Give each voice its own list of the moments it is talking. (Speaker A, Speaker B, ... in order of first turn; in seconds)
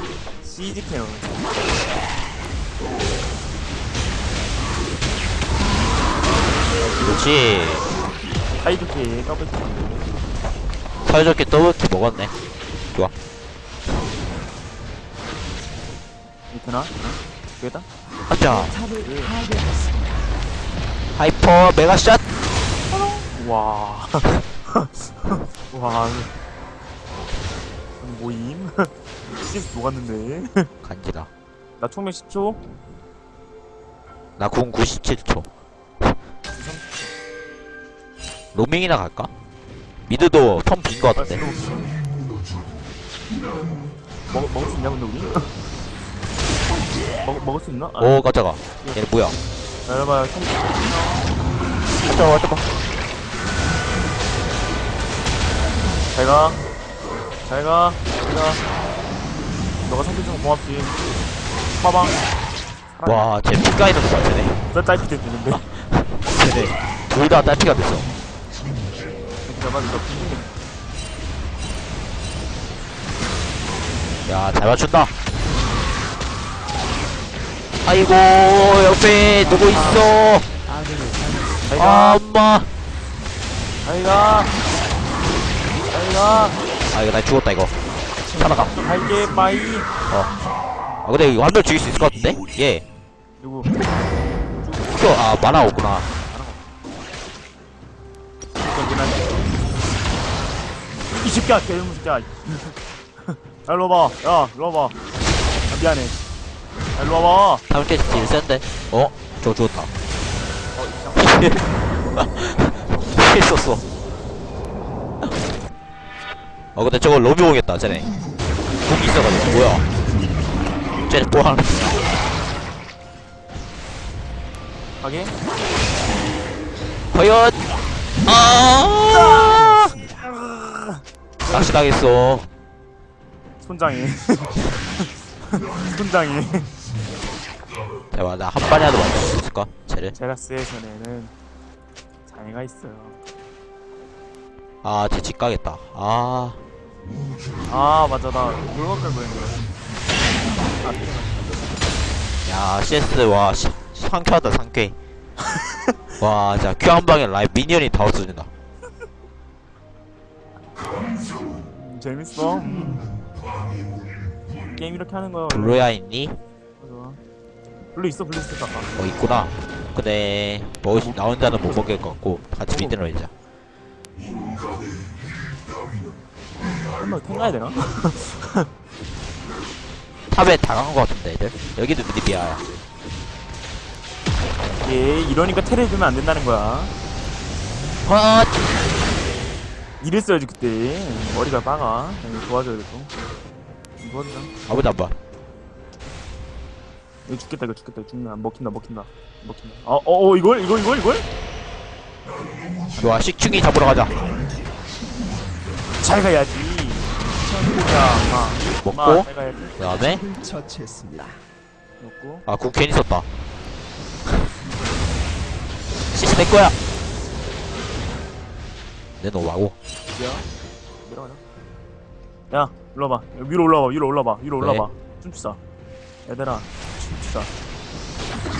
Speaker A: 0.4-1.7, 8.6-10.1, 16.5-17.9, 19.0-19.3, 22.9-26.3, 28.0-30.7, 31.8-32.6, 36.5-37.1, 41.1-42.0, 44.3-45.5, 47.2-48.2, 49.9-51.3, 56.1-56.6, 57.4-58.6, 59.8-61.0, 61.8-62.2, 62.9-63.3, 64.7-65.6, 69.5-70.5, 79.4-80.0, 81.7-82.2, 83.8-84.5, 85.9-86.6, 88.4-89.9, 93.4-93.7, 94.7-96.6, 98.7-99.5, 101.1-105.0, 105.7-106.2, 106.9-107.6, 110.8-111.6, 125.0-125.3, 129.1-129.5, 130.2-131.7, 133.6-136.7, 140.1-141.3, 142.2-143.2, 147.7-149.7, 150.7-151.9, 155.5-155.8, 161.7-163.2, 164.8-165.9, 166.8-167.2, 167.9-168.9, 172.7-173.0, 176.9-178.7, 184.8-186.9, 190.0-193.1, 194.0-194.5, 197.3-201.2, 206.0-209.8, 212.0-212.4, 220.1-220.5, 221.0-221.4, 222.5-225.6, 226.2-227.5
Speaker B: 7.0-7.9, 11.0-12.3, 18.3-18.7, 21.1-22.2, 30.8-31.3, 34.4-35.5, 38.5-39.3, 40.1-41.4, 48.0-49.4, 52.0-52.6, 63.0-64.6, 65.6-68.1, 74.3-75.1, 77.8-80.5, 81.8-82.7, 86.9-87.7, 88.4-88.7, 91.0-92.9, 94.9-96.1, 107.7-109.9, 111.2-113.8, 116.8-118.1, 118.8-119.8, 121.1-122.0, 127.1-127.6, 128.2-129.9, 131.5-132.5, 138.1-140.2, 144.8-146.6, 152.4-155.0, 156.2-158.5, 165.5-166.4, 169.0-173.3, 180.3-182.6, 188.0-188.5, 194.7-195.1, 203.0-204.1, 208.8-209.3, 209.8-210.2, 212.4-213.2, 216.1-216.8, 219.2-219.8, 224.6-224.9
Speaker C: 18.4-20.4, 79.4-80.0, 80.6-81.8, 88.3-89.5, 129.2-130.3, 207.5-208.0, 209.8-211.4